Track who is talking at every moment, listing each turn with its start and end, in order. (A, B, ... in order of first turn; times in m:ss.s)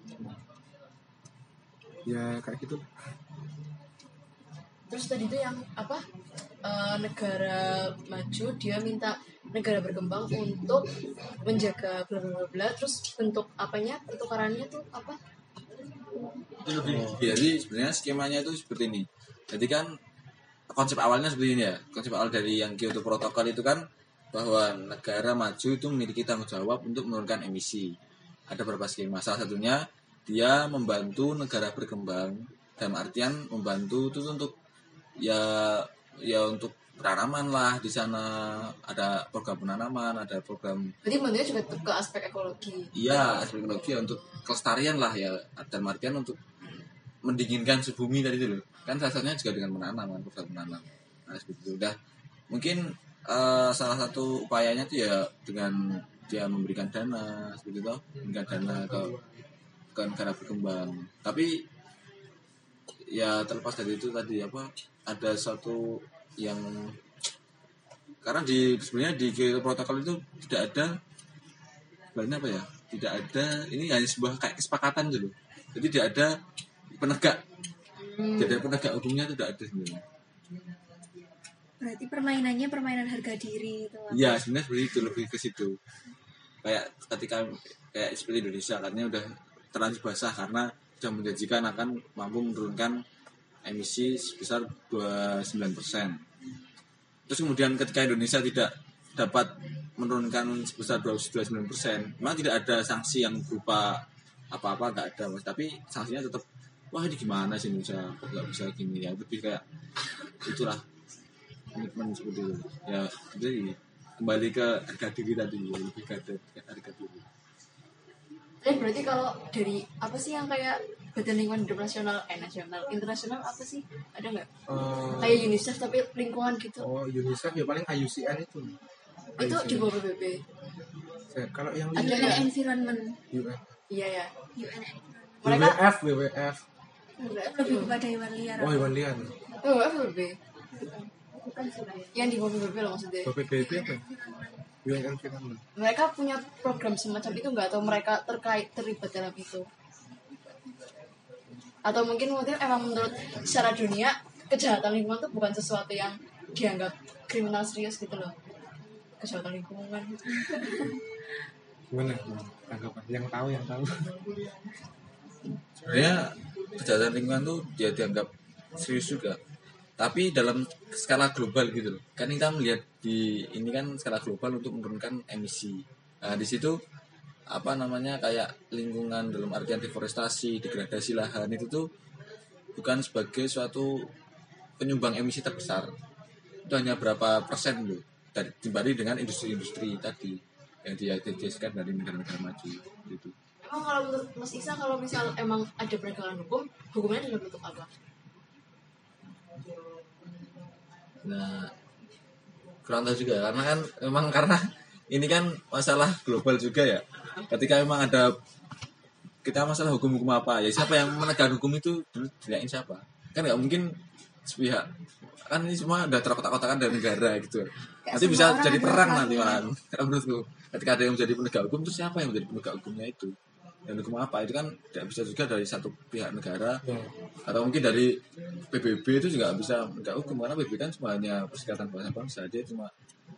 0:02.1-0:02.8 A
0:04.9-0:06.0 B
0:06.6-0:10.9 B
0:11.4-0:15.2 B
0:16.6-0:19.9 C
0:16.8-0:17.2 A
0:20.7-0:28.0 C
0:28.5-0:34.5 C
0:35.2-0:40.9 C
0:41.0-0:44.4 B
0:42.9-0:46.4 C
0:47.2-0:52.0 C
0:52.5-0:59.1 C
0:58.2-0:59.3 A
0:59.9-1:01.6 C
1:03.1-1:07.0 C
1:08.2-1:11.0 C
1:12.1-1:16.3 C
1:17.0-1:17.4 C
1:18.0-1:18.6 B
1:18.4-1:20.0 C
1:21.8-1:24.4 D
1:24.1-1:25.8 C
1:26.6-1:33.0 C
1:33.6-1:36.2 C
1:37.3-1:49.6 C
1:50.4-1:50.8 C
1:51.7-1:57.2 C
1:58.6-2:04.5 B
2:04.7-2:05.6 A
2:05.2-2:06.8 B
2:06.8-2:08.7 A
2:09.4-2:09.9 A
2:09.4-2:10.4 B
2:11.3-2:12.4 A
2:12.0-2:12.5 B
2:12.0-2:13.2 D
2:13.3-2:13.6 A
2:13.9-2:14.3 B
2:14.6-2:15.4 D
2:15.4-2:15.8 B
2:15.4-2:16.6 A
2:17.2-2:18.0 B
2:17.2-2:19.0 D
2:18.6-2:19.3 A
2:19.6-2:21.1 B
2:21.6-2:22.1 D
2:22.1-2:23.3 B
2:23.2-2:24.0 A
2:23.6-2:24.6 D
2:24.8-2:25.6 A
2:25.8-2:29.6 B
2:31.8-2:38.3 B
2:39.2-2:40.9 B
2:41.9-2:43.9 A
2:45.8-2:49.4 C
2:50.0-2:56.8 C
2:57.5-3:01.9 C
3:02.8-3:04.0 C
3:04.8-3:05.9 C
3:06.7-3:13.3 C
3:13.6-3:17.9 B
3:21.2-3:21.7 C
3:22.8-3:28.3 C
3:29.4-3:33.9 C
3:34.4-3:34.9 C
3:35.5-3:43.3 C
3:38.0-3:39.6 D
3:43.9-3:46.8 C
3:46.8-3:47.1 A
3:47.4-3:48.2 C
3:48.7-3:52.9 C